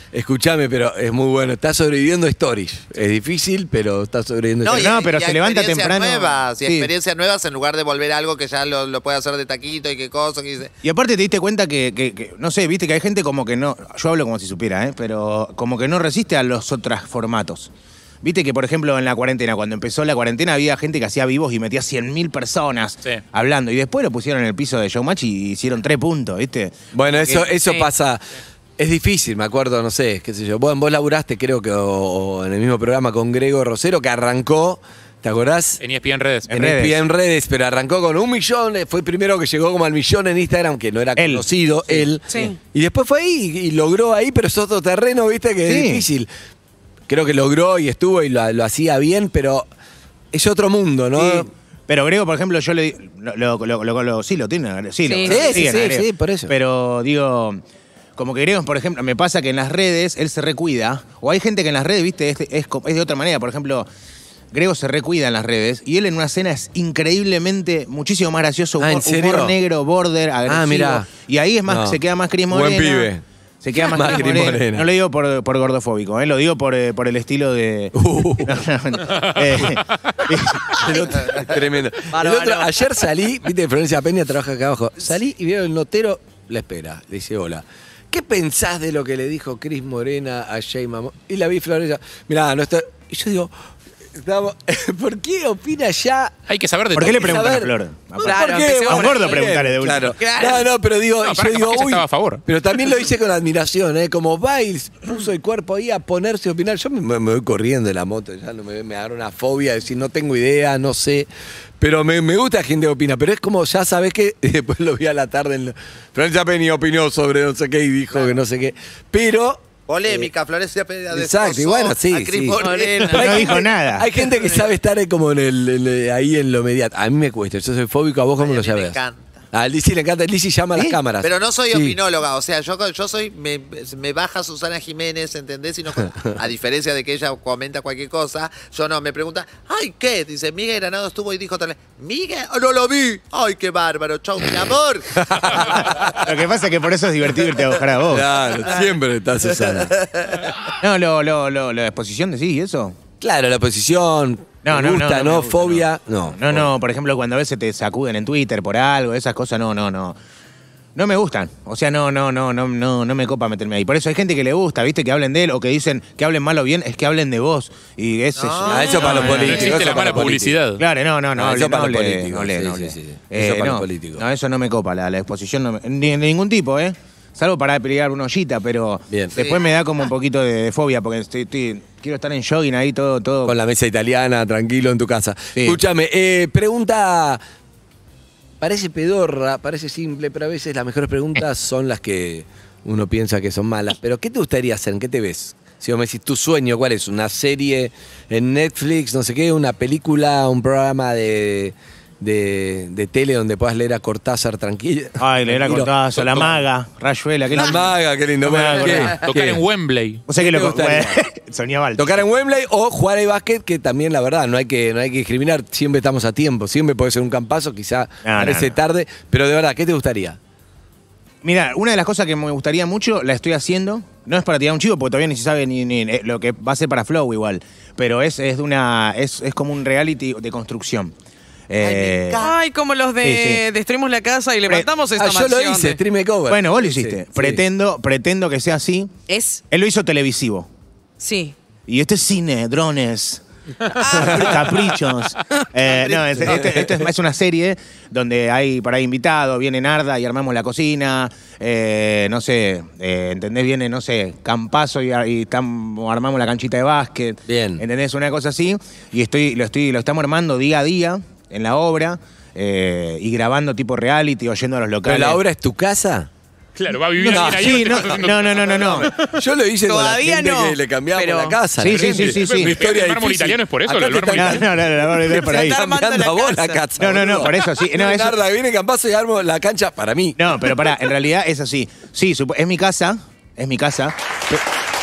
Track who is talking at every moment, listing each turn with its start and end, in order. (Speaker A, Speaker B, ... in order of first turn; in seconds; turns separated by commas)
Speaker A: 0.1-5.0, Speaker B: 4.6-10.7, Speaker C: 4.7-6.9, Speaker C: 10.8-17.7, Speaker C: 18.2-27.5, Speaker A: 26.9-28.2, Speaker D: 27.6-27.9, Speaker A: 28.8-35.8, Speaker E: 35.8-36.5, Speaker C: 36.5-37.0, Speaker A: 36.5-46.3, Speaker C: 41.2-42.5, Speaker D: 42.3-42.6, Speaker C: 45.6-46.0, Speaker A: 47.1-49.6, Speaker A: 50.3-51.5, Speaker C: 51.1-57.6, Speaker D: 55.0-55.9, Speaker A: 55.2-56.5, Speaker C: 58.2-63.9, Speaker C: 64.5-73.1, Speaker A: 68.8-69.5, Speaker A: 70.5-71.1, Speaker A: 71.7-73.2, Speaker C: 73.6-81.1, Speaker A: 73.8-74.8, Speaker A: 77.9-78.6, Speaker E: 79.1-79.8, Speaker A: 80.5-93.5, Speaker D: 80.7-81.3, Speaker D: 82.1-82.8, Speaker A: 94.1-96.3, Speaker E: 96.5-97.4, Speaker C: 96.9-100.2, Speaker A: 97.0-111.3, Speaker D: 98.2-99.5, Speaker D: 100.2-100.7, Speaker E: 101.2-102.4, Speaker A: 111.8-120.3, Speaker B: 119.9-123.3, Speaker A: 121.1-129.0, Speaker D: 122.5-123.5, Speaker C: 123.1-124.1, Speaker B: 128.4-129.3, Speaker A: 129.5-131.9, Speaker B: 131.2-145.7, Speaker A: 145.1-146.3, Speaker C: 145.7-148.3, Speaker A: 148.1-149.9, Speaker B: 149.4-150.6, Speaker C: 150.8-152.9, Speaker A: 153.2-156.7, Speaker C: 154.6-160.2, Speaker C: 160.9-183.6, Speaker B: 168.3-169.9, Speaker A: 168.7-170.6, Speaker E: 169.0-170.8, Speaker A: 171.3-174.2, Speaker A: 183.4-187.4, Speaker C: 185.5-185.8, Speaker A: 188.6-205.9, Speaker C: 205.2-209.2, Speaker E: 206.1-206.6, Speaker A: 207.5-209.6, Speaker E: 209.0-210.2, Speaker C: 210.3-212.2, Speaker A: 210.3-211.2, Speaker A: 211.9-220.4, Speaker C: 218.2-218.8, Speaker C: 221.4-231.1, Speaker C: 231.7-232.4, Speaker B: 231.8-232.6, Speaker D: 232.4-236.0, Speaker C: 233.2-233.6, Speaker A: 235.2-237.6, Speaker C: 236.5-239.1, Speaker D: 239.3-239.6, Speaker C: 239.7-240.7, Speaker D: 241.2-241.5, Speaker C: 241.9-265.4, Speaker D: 243.9-244.9, Speaker A: 244.1-244.6, Speaker D: 245.6-246.2, Speaker A: 246.4-247.0, Speaker A: 257.5-257.8, Speaker A: 265.0-266.3, Speaker E: 266.8-269.1, Speaker C: 267.1-269.1, Speaker A: 267.2-280.5, Speaker D: 269.8-271.6, Speaker C: 271.8-272.8, Speaker E: 271.9-274.6, Speaker C: 274.3-275.8, Speaker D: 275.3-276.8, Speaker C: 277.0-278.4, Speaker C: 280.4-284.6